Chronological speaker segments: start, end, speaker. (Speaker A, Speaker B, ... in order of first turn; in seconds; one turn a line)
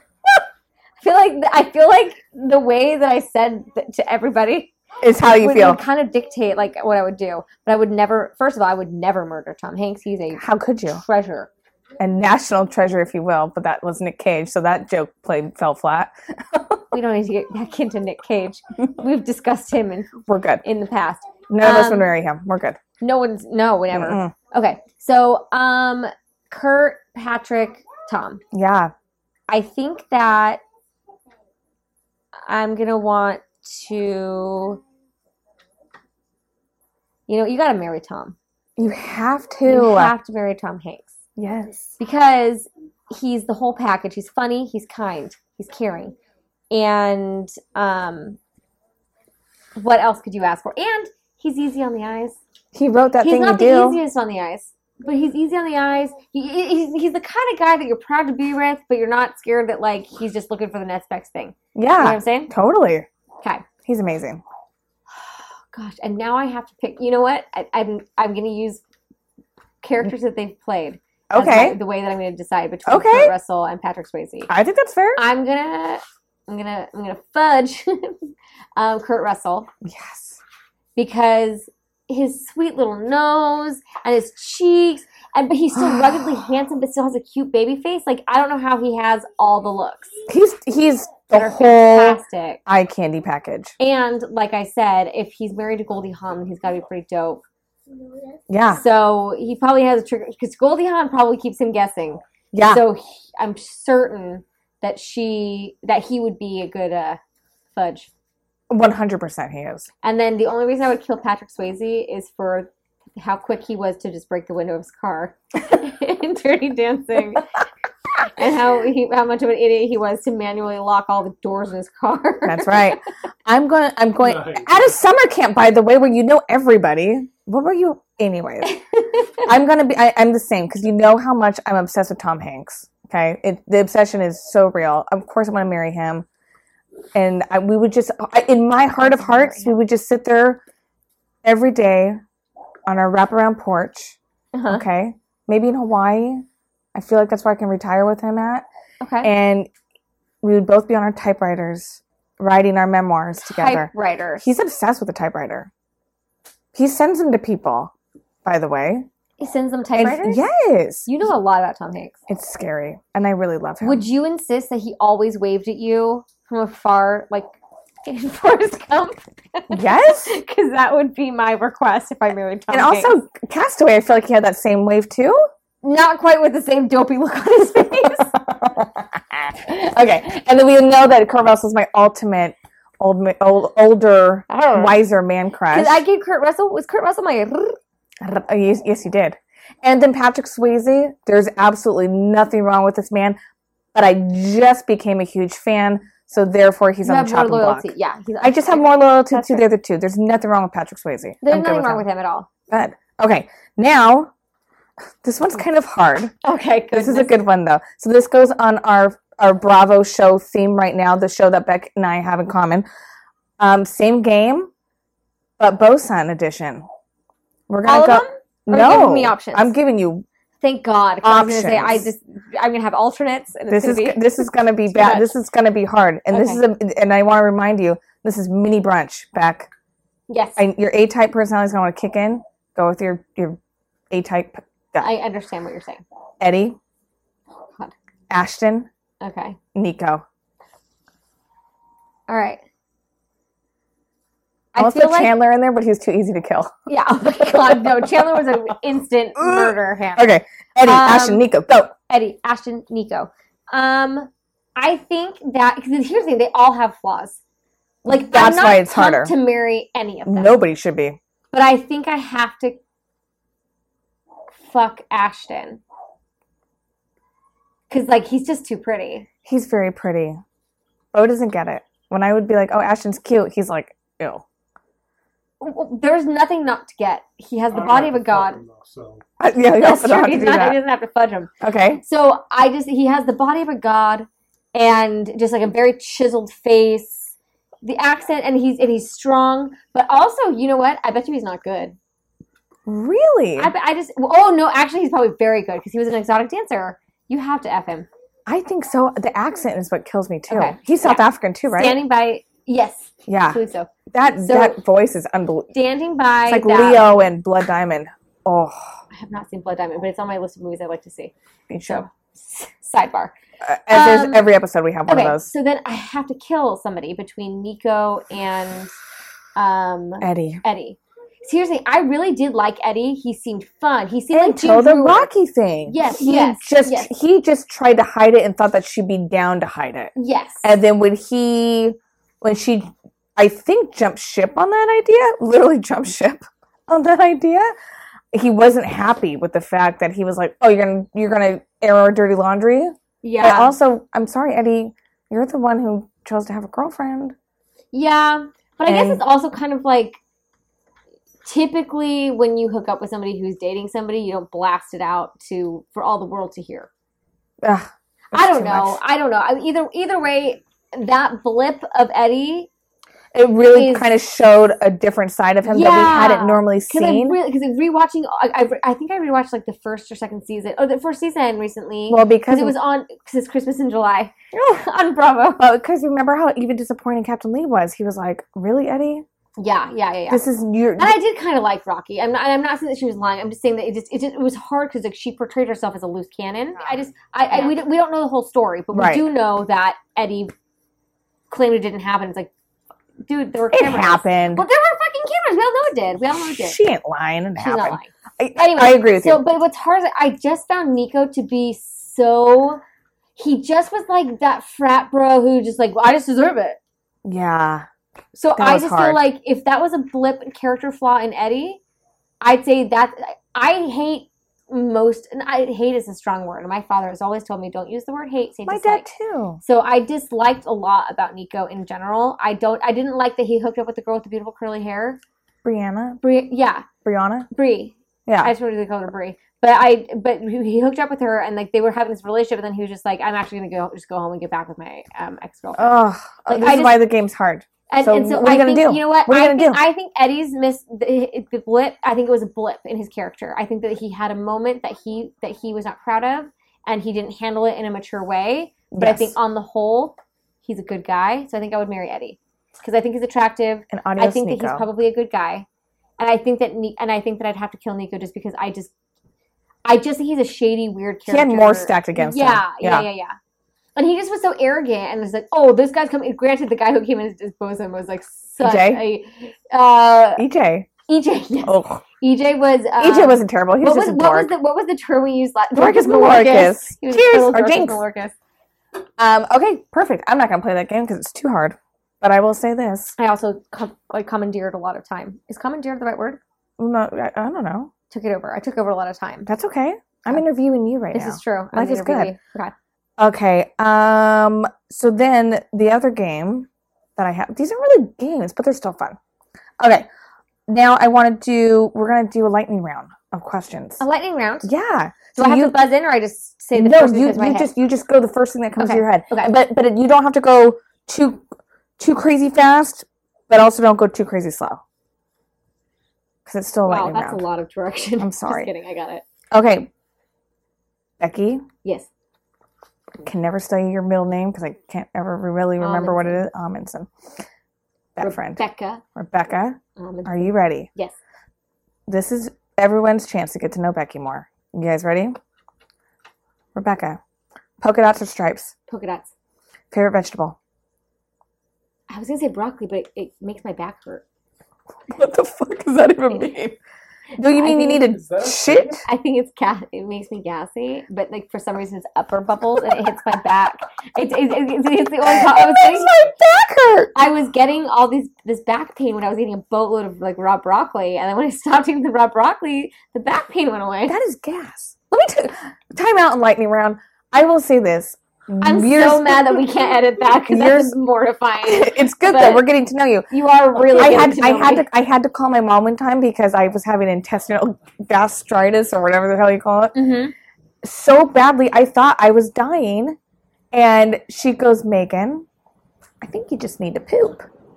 Speaker A: 1.0-4.7
Speaker B: 5.0-5.8
Speaker A: 5.3-11.5
Speaker B: 10.3-11.0
Speaker B: 12.0-16.8
Speaker A: 16.9-22.1
Speaker B: 20.3-20.6
Speaker B: 21.5-22.8
Speaker A: 23.0-28.4
Speaker B: 23.9-24.3
Speaker B: 28.5-28.9
Speaker A: 29.5-30.6
Speaker A: 32.5-34.8
Speaker A: 37.3-38.4
Speaker B: 38.8-40.1
Speaker A: 39.6-41.1
Speaker B: 41.4-41.9
Speaker A: 42.0-46.1
Speaker A: 46.7-48.4
Speaker A: 49.8-52.4
Speaker B: 52.7-54.0
Speaker A: 53.2-62.5
Speaker B: 61.7-63.1
Speaker B: 63.8-64.4
Speaker A: 65.7-68.8
Speaker A: 69.8-74.5
Speaker B: 71.3-71.8
Speaker B: 72.9-73.3
Speaker B: 74.5-75.2
Speaker A: 75.2-79.7
Speaker B: 79.8-80.4
Speaker A: 81.0-90.1
Speaker B: 85.7-86.3
Speaker B: 90.3-93.7
Speaker A: 91.3-92.6
Speaker A: 93.8-97.4
Speaker B: 98.5-98.8
Speaker A: 98.7-107.2
Speaker B: 102.5-102.8
Speaker A: 107.7-108.1
Speaker B: 108.7-109.9
Speaker A: 110.0-117.5
Speaker A: 118.2-123.0
Speaker B: 122.5-128.8
Speaker C: 124.4-124.6
Speaker A: 128.6-129.4
Speaker B: 129.4-136.2
Speaker B: 137.1-140.6
Speaker A: 139.0-139.8
Speaker B: 141.4-142.2
Speaker B: 142.9-144.2
Speaker A: 144.5-144.8
Speaker B: 144.7-146.4
Speaker B: 146.9-148.6
Speaker A: 149.0-149.3
Speaker B: 149.2-149.7
Speaker B: 150.4-155.7
Speaker A: 153.4-154.5
Speaker B: 156.7-157.9
Speaker B: 158.4-159.1
Speaker A: 159.4-160.4
Speaker B: 160.0-161.1
Speaker A: 161.1-162.2
Speaker B: 162.3-164.1
Speaker A: 163.8-167.5
Speaker A: 168.0-173.2
Speaker B: 169.7-170.3
Speaker B: 172.7-175.4
Speaker A: 175.8-178.3
Speaker B: 178.2-186.0
Speaker A: 184.5-185.0
Speaker A: 185.7-187.8
Speaker B: 188.2-193.4
Speaker B: 193.9-202.0
Speaker A: 197.0-199.6
Speaker A: 201.4-202.5
Speaker B: 202.7-204.3
Speaker B: 205.2-206.3
Speaker A: 206.4-207.4
Speaker B: 206.9-212.8
Speaker B: 213.6-214.7
Speaker B: 215.6-216.8
Speaker B: 217.7-220.2
Speaker A: 217.8-219.7
Speaker A: 220.6-225.3
Speaker B: 221.2-222.1
Speaker B: 223.7-229.7
Speaker A: 226.3-226.6
Speaker A: 230.3-230.6
Speaker B: 230.6-233.6
Speaker B: 234.1-235.1
Speaker A: 235.0-236.0
Speaker B: 236.4-236.8
Speaker A: 237.7-237.9
Speaker B: 238.3-238.9
Speaker A: 239.2-239.6
Speaker B: 239.7-240.2
Speaker A: 242.3-242.6
Speaker A: 244.7-245.3
Speaker B: 244.8-246.7
Speaker A: 246.9-251.4
Speaker B: 247.4-248.6
Speaker B: 249.4-251.9
Speaker A: 252.1-257.4
Speaker B: 258.0-259.3
Speaker A: 258.1-260.6
Speaker B: 260.2-261.2
Speaker A: 261.5-262.8
Speaker A: 264.6-265.8
Speaker A: 267.9-269.3
Speaker B: 269.4-270.4
Speaker B: 271.1-274.4
Speaker A: 275.6-278.6
Speaker C: 277.7-279.2
Speaker B: 279.4-280.8
Speaker A: 279.7-281.5
Speaker B: 281.6-282.0
Speaker A: 282.0-291.9
Speaker B: 292.9-293.7
Speaker A: 293.6-298.1
Speaker B: 298.5-302.0
Speaker A: 300.5-304.8
Speaker B: 303.3-303.6
Speaker B: 304.1-305.7
Speaker A: 305.7-307.3
Speaker B: 306.4-308.8
Speaker A: 309.1-311.3
Speaker B: 311.7-312.1
Speaker A: 311.9-313.3
Speaker B: 313.6-315.5
Speaker A: 313.9-314.5
Speaker A: 315.1-318.9
Speaker A: 319.6-325.3
Speaker B: 320.2-320.6
Speaker B: 324.3-330.1
Speaker A: 325.9-327.1
Speaker A: 330.2-330.7
Speaker B: 330.6-337.7
Speaker B: 338.3-347.3
Speaker A: 343.2-343.8
Speaker A: 347.9-350.2
Speaker B: 348.8-349.2
Speaker A: 351.4-356.9
Speaker B: 357.6-359.0
Speaker A: 358.3-362.7
Speaker B: 363.3-367.4
Speaker A: 363.7-364.1
Speaker A: 365.6-375.6
Speaker B: 372.1-372.7
Speaker B: 374.5-374.8
Speaker B: 375.6-379.2
Speaker A: 379.6-380.4
Speaker B: 380.3-381.2
Speaker A: 381.0-390.5
Speaker B: 388.9-389.2
Speaker A: 391.5-392.5
Speaker A: 393.3-396.8
Speaker B: 393.7-394.6
Speaker B: 396.4-399.4
Speaker A: 397.6-402.8
Speaker A: 403.4-406.8
Speaker B: 407.2-407.9
Speaker A: 408.4-411.8
Speaker B: 408.6-409.2
Speaker A: 412.4-419.0
Speaker B: 418.7-419.6
Speaker A: 419.6-425.2
Speaker B: 425.6-426.2
Speaker A: 426.2-426.9
Speaker B: 427.0-427.5
Speaker A: 427.5-435.9
Speaker B: 428.3-428.5
Speaker B: 435.8-439.8
Speaker A: 436.5-437.1
Speaker A: 437.9-455.6
Speaker B: 448.9-449.3
Speaker B: 453.9-454.9
Speaker A: 456.2-458.9
Speaker A: 459.8-463.3
Speaker B: 461.3-463.1
Speaker A: 463.9-470.4
Speaker B: 468.6-469.0
Speaker B: 470.4-470.9
Speaker A: 471.1-478.3
Speaker B: 471.6-472.0
Speaker B: 473.0-474.5
Speaker B: 475.7-478.0
Speaker B: 479.2-483.1
Speaker A: 483.2-486.4
Speaker B: 486.8-487.9
Speaker A: 488.1-489.5
Speaker B: 489.5-492.3
Speaker A: 491.1-492.7
Speaker B: 493.2-499.2
Speaker B: 499.8-500.1
Speaker B: 500.7-504.0
Speaker A: 504.0-504.7
Speaker B: 504.6-505.8
Speaker A: 505.4-507.7
Speaker B: 506.7-511.4
Speaker A: 508.8-509.5
Speaker B: 512.0-514.8
Speaker B: 516.5-517.4
Speaker A: 516.9-519.2
Speaker B: 518.2-518.7
Speaker B: 519.5-519.9
Speaker B: 521.2-521.6
Speaker B: 523.2-527.1
Speaker A: 525.8-526.4
Speaker B: 528.2-528.6
Speaker A: 528.2-529.0
Speaker B: 529.1-530.9
Speaker A: 530.0-531.1
Speaker B: 532.1-535.4
Speaker B: 536.7-537.2
Speaker B: 537.8-538.7
Speaker A: 538.9-539.3
Speaker B: 539.9-540.6
Speaker A: 542.1-544.2
Speaker B: 545.1-546.8
Speaker B: 547.4-549.0
Speaker A: 547.4-548.1
Speaker C: 548.1-549.0
Speaker A: 549.0-556.1
Speaker B: 555.2-557.1
Speaker A: 557.1-564.2
Speaker B: 564.1-570.9
Speaker A: 568.6-572.6
Speaker B: 571.6-579.9
Speaker A: 573.3-574.9
Speaker A: 579.9-580.3
Speaker B: 580.8-583.1
Speaker B: 583.7-585.5
Speaker B: 586.2-587.5